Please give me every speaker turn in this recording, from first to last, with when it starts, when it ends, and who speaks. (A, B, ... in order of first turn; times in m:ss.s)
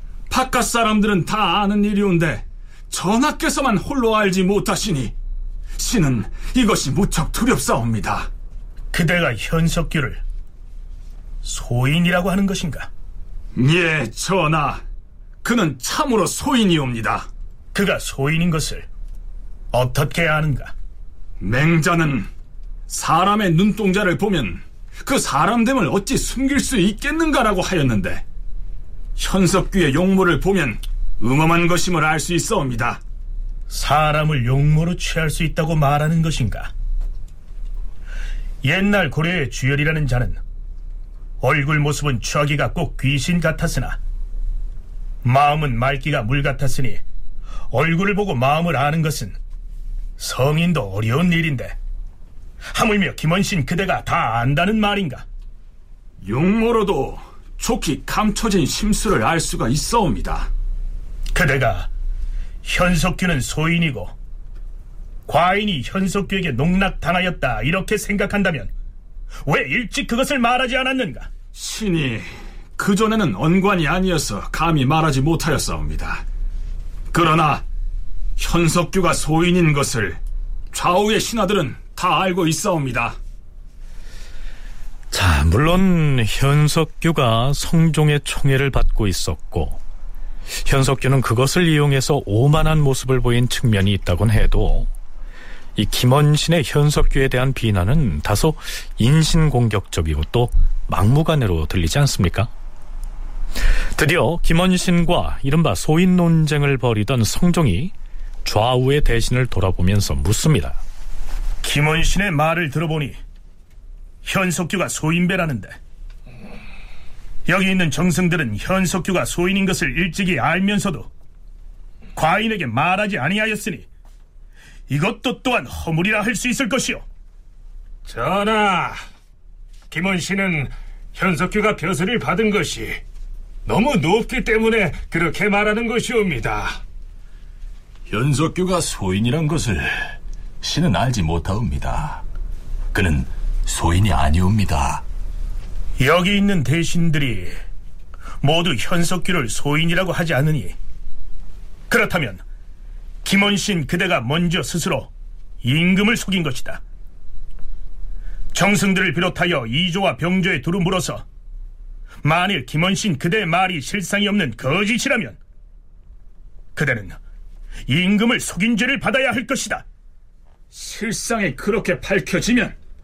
0:00.3-0:05.1 A
0:05.8-0:08.3 A
0:08.9-0:10.2 B
0:11.4-0:12.9 B
0:13.6-0:14.8 A
0:15.4-0:17.3 A
0:17.7-0:18.9 B
0:19.7-0:20.7 B
0:21.4-0:22.3 A
0:22.9-0:28.2 A
0:29.2-0:33.0 A
0:33.7-0:36.7 B
0:38.6-0:40.4 B
0:41.4-0:44.0 B
0:45.2-0:47.0 B
0:47.7-0:49.4 B
0:50.2-0:51.8 B
0:52.7-0:55.2 B
0:56.2-1:00.5 A
1:01.3-1:01.9 B
1:02.6-1:04.1 B
1:05.3-1:08.7 B
1:09.4-1:11.3 B
1:11.5-1:16.2 A
1:17.1-1:17.6 A
1:18.4-1:20.2 A
1:20.7-1:23.2 A
1:25.1-1:29.8 C
1:30.6-1:34.9 C
1:35.8-1:42.5 C
1:44.0-1:47.9 C
1:48.4-1:50.8 C
1:51.6-1:53.2 B
1:54.2-1:55.8 B
1:57.5-2:01.1 B
2:02.2-2:03.9 B
2:04.9-2:07.0 B
2:08.1-2:09.0 D
2:09.9-2:13.0 D
2:13.7-2:16.8 D
2:18.1-2:22.2 E
2:22.9-2:25.0 E
2:26.0-2:27.6 B
2:28.4-2:30.8 B
2:31.9-2:32.4 B
2:33.2-2:35.1 B
2:35.6-2:36.8 B
2:38.5-2:41.2 B
2:42.2-2:45.4 B
2:46.8-2:47.2 B
2:47.9-2:49.8 B
2:50.7-2:52.8 A